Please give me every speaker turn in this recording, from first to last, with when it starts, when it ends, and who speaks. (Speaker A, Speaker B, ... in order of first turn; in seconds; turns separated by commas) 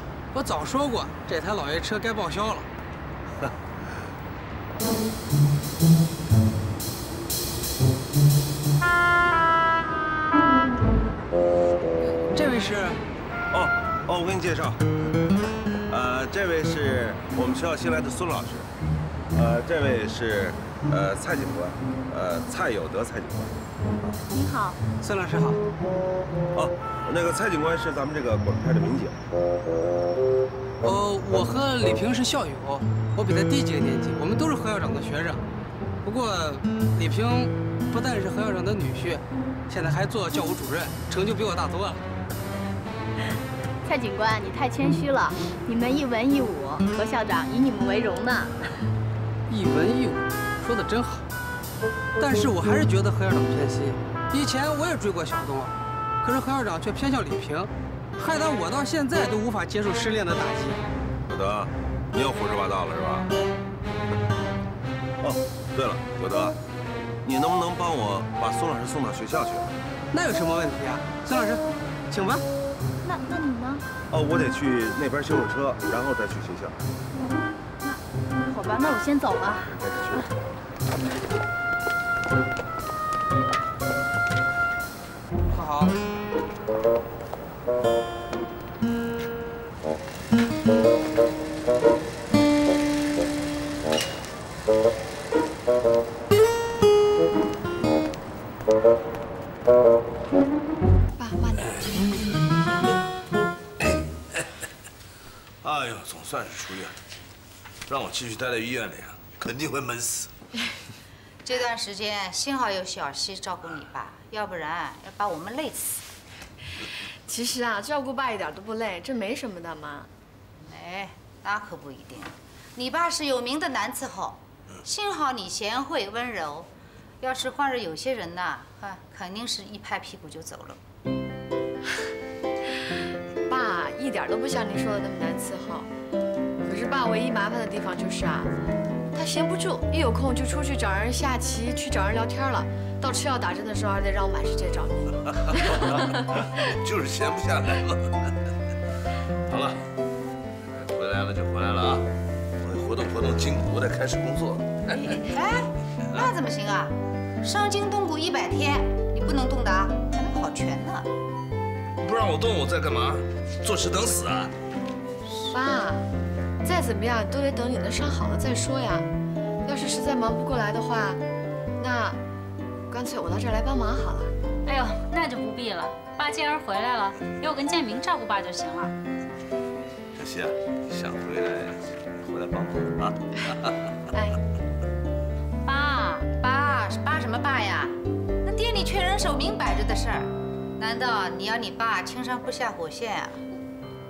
Speaker A: 0.3-2.7, Speaker A: 12.3-13.0, Speaker B: 13.5-14.8, Speaker B: 15.9-18.7, Speaker B: 19.3-23.6, Speaker C: 24.3-24.8, Speaker A: 25.0-25.6, Speaker B: 26.6-29.1, Speaker A: 30.8-35.4, Speaker A: 36.0-42.0, Speaker C: 43.8-48.7, Speaker A: 49.5-51.2, Speaker A: 52.2-60.8, Speaker B: 61.3-63.3, Speaker B: 65.2-66.6, Speaker B: 67.2-69.7, Speaker A: 70.1-72.5, Speaker C: 73.0-73.8, Speaker B: 74.1-76.8, Speaker C: 77.8-80.3, Speaker B: 79.7-80.2, Speaker A: 85.5-86.0, Speaker D: 101.2-102.1, Speaker E: 103.8-104.5, Speaker E: 105.6-107.0, Speaker E: 107.9-110.3, Speaker F: 111.5-116.0, Speaker D: 117.3-120.1, Speaker F: 120.7-126.7, Speaker F: 127.2-130.8, Speaker D: 133.5-135.9, Speaker D: 136.6-138.5, Speaker D: 139.1-145.2, Speaker E: 145.7-146.2, Speaker E: 146.7-148.3, Speaker E: 149.5-149.8, Speaker E: 150.8-152.1, Speaker E: 152.6-155.3, Speaker F: 155.3-161.1, Speaker E: 162.0-164.5, Speaker D: 165.5-166.1, Speaker D: 166.6-169.1, Speaker D: 169.7-171.2, Speaker D: 171.8-172.2, Speaker D: 172.9-174.3, Speaker G: 174.7-178.9, Speaker E: 180.1-183.7, Speaker F: 185.7-193.4